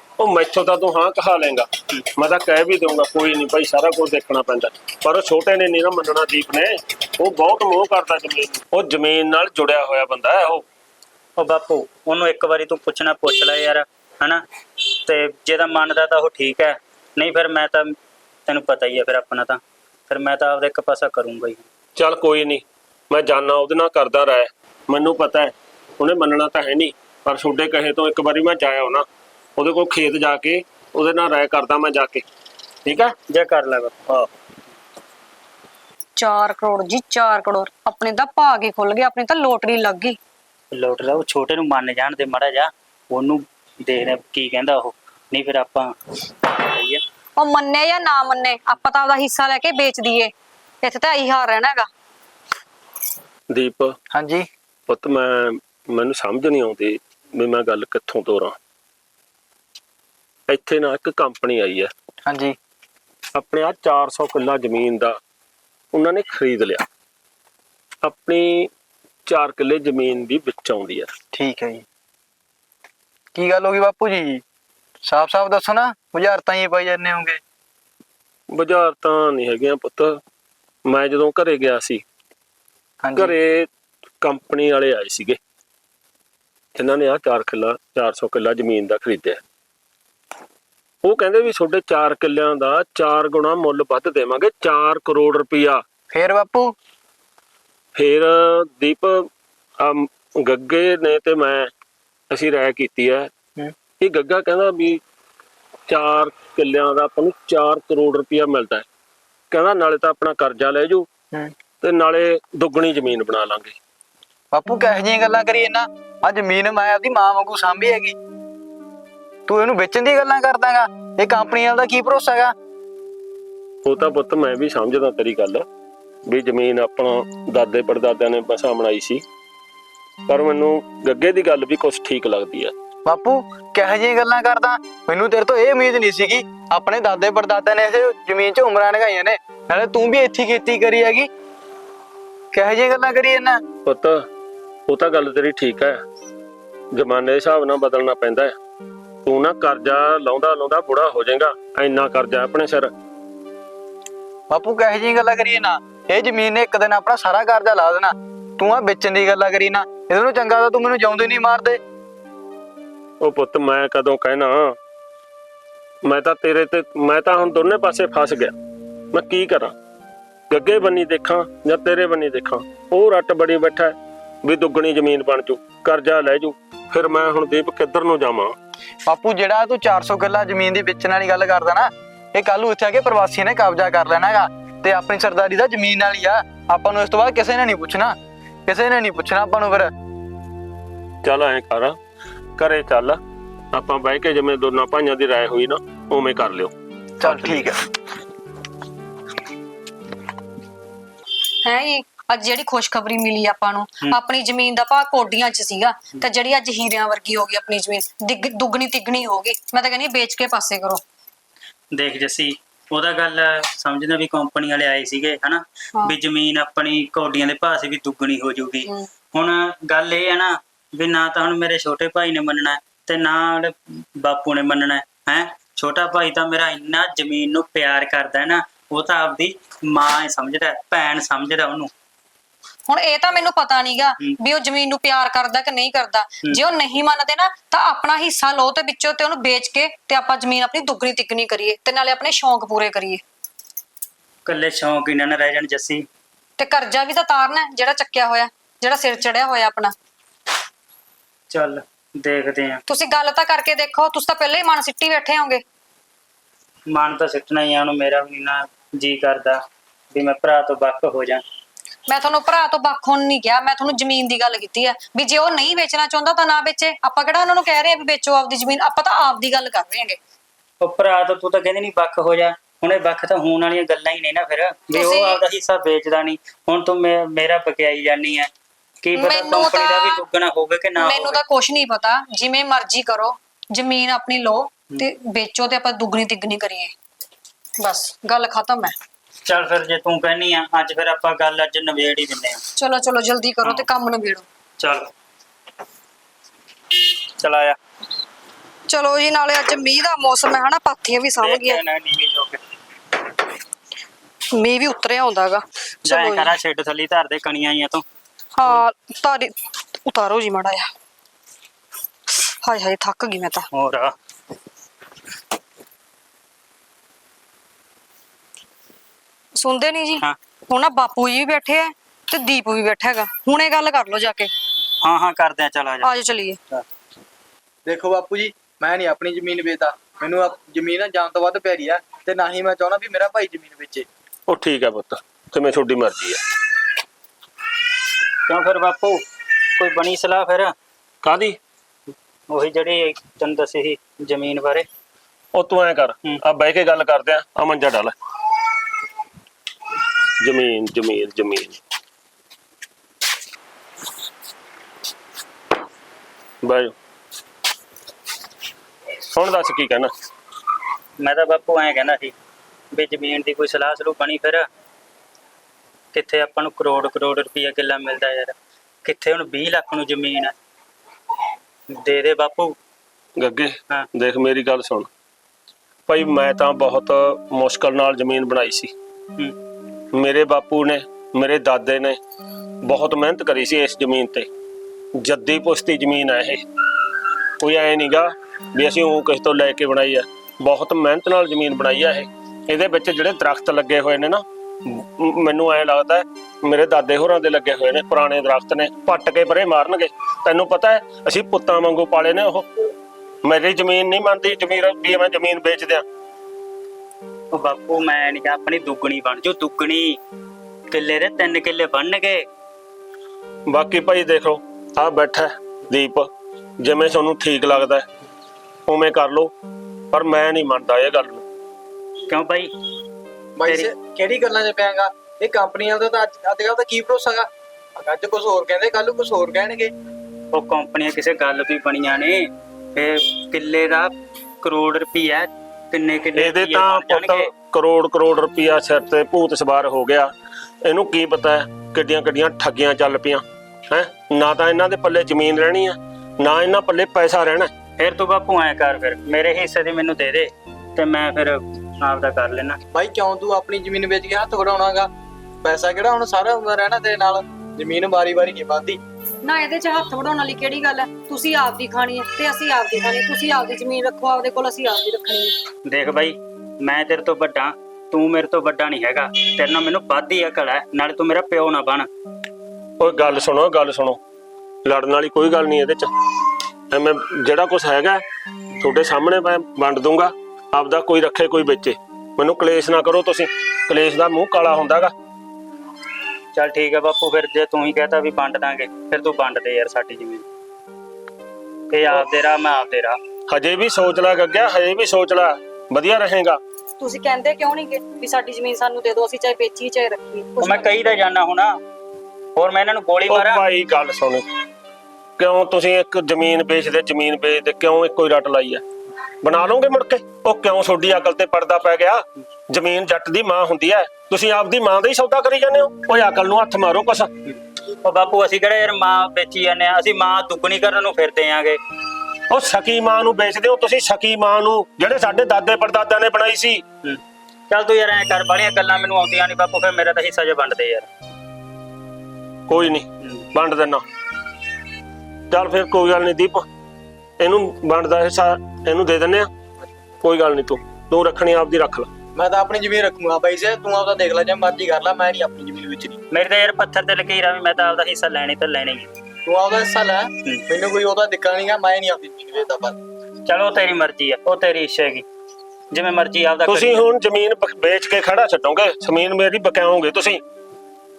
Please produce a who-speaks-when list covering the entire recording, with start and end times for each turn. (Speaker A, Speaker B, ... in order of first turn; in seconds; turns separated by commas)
Speaker A: 0.2-10.6, Speaker B: 11.4-14.4, Speaker B: 15.0-17.9, Speaker B: 18.4-21.6, Speaker A: 21.9-29.1, Speaker A: 29.6-32.2, Speaker A: 32.9-33.1, Speaker B: 33.3-33.9, Speaker C: 36.1-40.2, Speaker B: 40.7-47.0, Speaker C: 47.4-51.9, Speaker A: 53.5-54.0, Speaker D: 54.1-54.5, Speaker A: 54.9-58.5, Speaker A: 60.5-61.9, Speaker D: 62.2-62.5, Speaker A: 63.3-65.2, Speaker A: 65.9-66.8, Speaker A: 68.0-68.7, Speaker A: 69.3-71.1, Speaker D: 71.3-71.8, Speaker D: 73.3-74.4, Speaker D: 75.0-77.4, Speaker A: 78.5-80.2, Speaker A: 80.9-82.0, Speaker D: 83.0-83.3, Speaker A: 83.2-83.7, Speaker A: 84.2-85.4, Speaker A: 86.8-89.4, Speaker A: 91.0-95.8, Speaker D: 96.1-96.7, Speaker A: 98.0-99.3, Speaker A: 99.8-101.7, Speaker A: 102.3-103.3, Speaker A: 104.0-105.0, Speaker A: 105.9-108.8, Speaker A: 109.5-111.1, Speaker A: 111.8-113.8, Speaker D: 114.5-118.2, Speaker D: 119.5-122.5, Speaker A: 123.8-125.6, Speaker A: 126.3-129.2, Speaker A: 130.3-132.7, Speaker D: 133.1-141.3, Speaker D: 142.5-143.6, Speaker A: 143.8-144.2, Speaker A: 144.9-146.0, Speaker A: 146.9-148.5, Speaker A: 149.2-152.9, Speaker D: 154.5-161.8, Speaker A: 163.2-164.8, Speaker A: 166.0-168.5, Speaker A: 169.1-169.7, Speaker A: 170.5-178.6, Speaker D: 179.1-188.1, Speaker D: 188.7-189.9, Speaker A: 191.2-192.0, Speaker A: 192.6-193.2, Speaker A: 193.7-197.7, Speaker D: 197.2-197.8, Speaker C: 201.6-211.0, Speaker B: 211.9-231.9, Speaker C: 232.9-243.2, Speaker B: 244.4-246.0, Speaker C: 246.6-249.9, Speaker B: 251.5-252.8, Speaker C: 252.9-255.6, Speaker B: 256.9-259.6, Speaker B: 260.1-261.4, Speaker C: 262.1-270.2, Speaker B: 270.8-278.5, Speaker C: 274.9-275.4, Speaker B: 279.0-281.4, Speaker C: 279.1-280.2, Speaker C: 281.0-286.9, Speaker C: 287.8-288.9, Speaker B: 289.4-292.6, Speaker C: 292.8-294.4, Speaker B: 294.8-295.1, Speaker B: 297.4-297.8, Speaker C: 298.9-301.8, Speaker B: 301.4-302.6, Speaker C: 304.5-306.5, Speaker B: 306.0-308.0, Speaker C: 308.6-309.5, Speaker C: 310.0-310.9, Speaker C: 312.3-313.7, Speaker B: 313.7-314.1, Speaker C: 319.6-324.5, Speaker B: 325.0-326.1, Speaker C: 326.0-326.6, Speaker D: 327.9-334.1, Speaker A: 334.5-336.4, Speaker B: 338.5-339.2, Speaker B: 339.8-340.7, Speaker A: 341.2-341.6, Speaker B: 342.5-344.9, Speaker A: 345.5-348.1, Speaker A: 350.4-351.8, Speaker A: 356.6-356.9, Speaker A: 359.3-360.1, Speaker B: 361.2-362.3, Speaker B: 362.9-364.6, Speaker B: 366.1-370.5, Speaker B: 371.9-372.7, Speaker A: 373.4-375.1, Speaker A: 376.1-378.9, Speaker A: 380.1-382.2, Speaker A: 382.8-384.5, Speaker A: 385.2-386.6, Speaker A: 387.6-402.7, Speaker A: 403.4-406.0, Speaker B: 407.5-410.2, Speaker B: 410.9-412.4, Speaker A: 413.7-416.3, Speaker A: 416.8-418.1, Speaker A: 418.9-419.5, Speaker A: 420.1-421.4, Speaker B: 422.3-422.7, Speaker D: 423.6-429.9, Speaker B: 423.6-423.9, Speaker B: 430.5-437.5, Speaker A: 436.4-440.3, Speaker A: 440.8-447.7, Speaker B: 448.0-452.8, Speaker D: 452.9-455.1, Speaker D: 455.6-459.0, Speaker C: 459.4-465.5, Speaker B: 465.9-472.1, Speaker A: 473.0-474.2, Speaker A: 474.8-476.1, Speaker A: 476.9-478.2, Speaker A: 478.8-485.1, Speaker B: 486.5-490.4, Speaker B: 491.9-493.2, Speaker A: 493.5-496.6, Speaker C: 497.0-501.1, Speaker B: 500.6-501.7, Speaker B: 502.6-503.6, Speaker A: 503.3-504.4, Speaker A: 505.4-508.8, Speaker A: 509.4-517.3, Speaker B: 517.5-521.8, Speaker A: 522.5-526.8, Speaker B: 527.0-531.1, Speaker A: 532.7-534.0, Speaker A: 535.5-536.6, Speaker A: 537.4-539.5, Speaker A: 540.2-542.1, Speaker D: 542.4-546.2, Speaker B: 546.3-549.1, Speaker D: 549.5-553.0, Speaker B: 553.5-555.2, Speaker B: 555.9-557.1, Speaker A: 556.7-560.4